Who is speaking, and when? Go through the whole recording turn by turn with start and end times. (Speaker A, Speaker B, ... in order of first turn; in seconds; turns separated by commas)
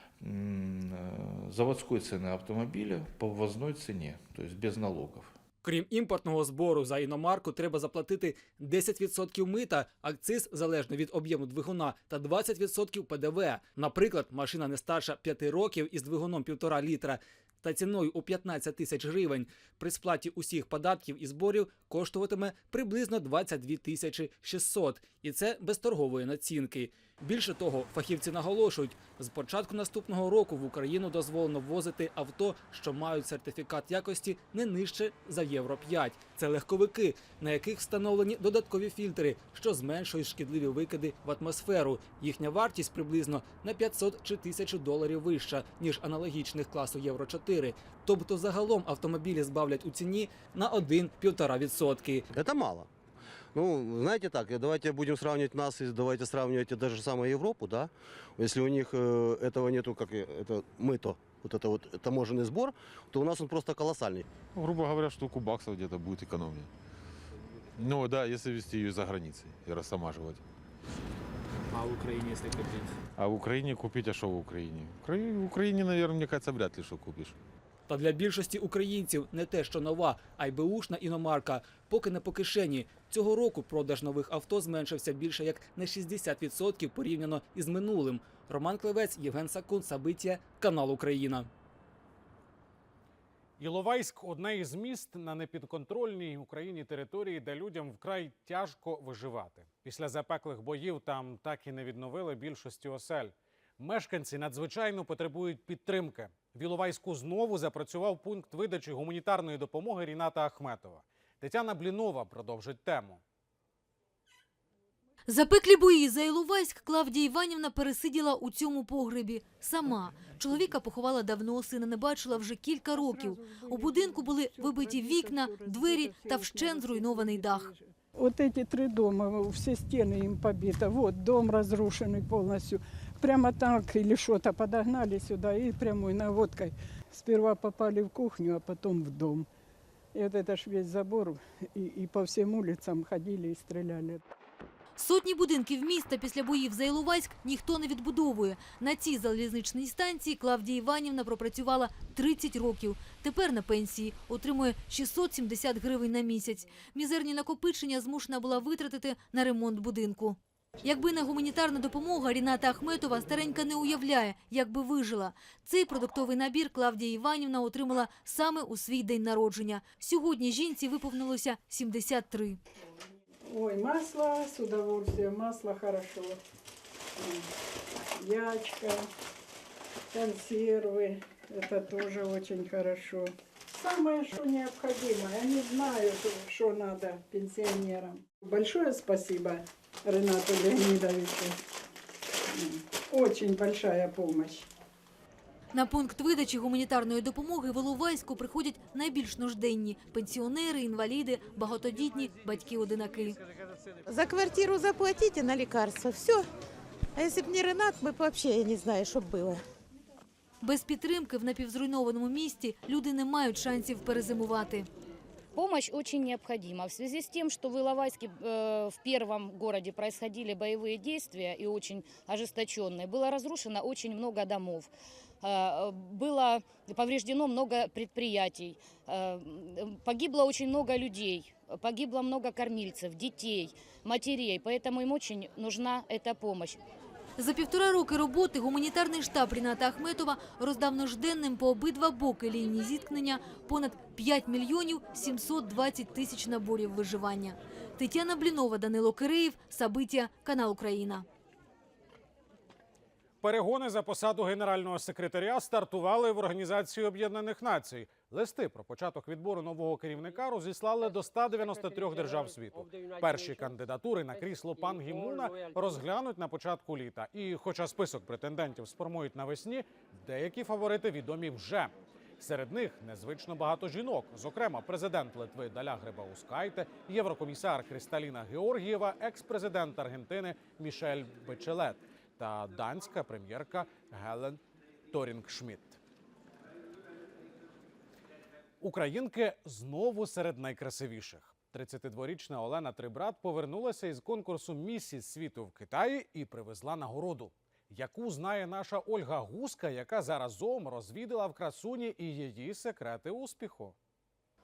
Speaker A: 0.2-5.3, Speaker B: 5.6-52.2, Speaker C: 52.3-52.9, Speaker C: 53.5-64.2, Speaker D: 64.5-66.7, Speaker D: 67.8-70.4, Speaker D: 73.2-77.3, Speaker B: 77.9-91.5, Speaker E: 93.6-113.2, Speaker F: 115.3-127.7, Speaker G: 122.9-139.5, Speaker G: 140.1-144.2, Speaker F: 145.0-172.6, Speaker G: 173.5-176.4, Speaker G: 177.2-177.4, Speaker G: 178.2-179.1, Speaker G: 180.1-191.5, Speaker G: 192.5-194.7, Speaker F: 195.7-203.4, Speaker H: 204.1-206.5, Speaker H: 207.2-209.6, Speaker F: 210.6-214.9, Speaker I: 215.6-224.9, Speaker I: 225.4-236.8, Speaker F: 237.4-251.2, Speaker E: 253.4-286.0, Speaker E: 288.8-303.9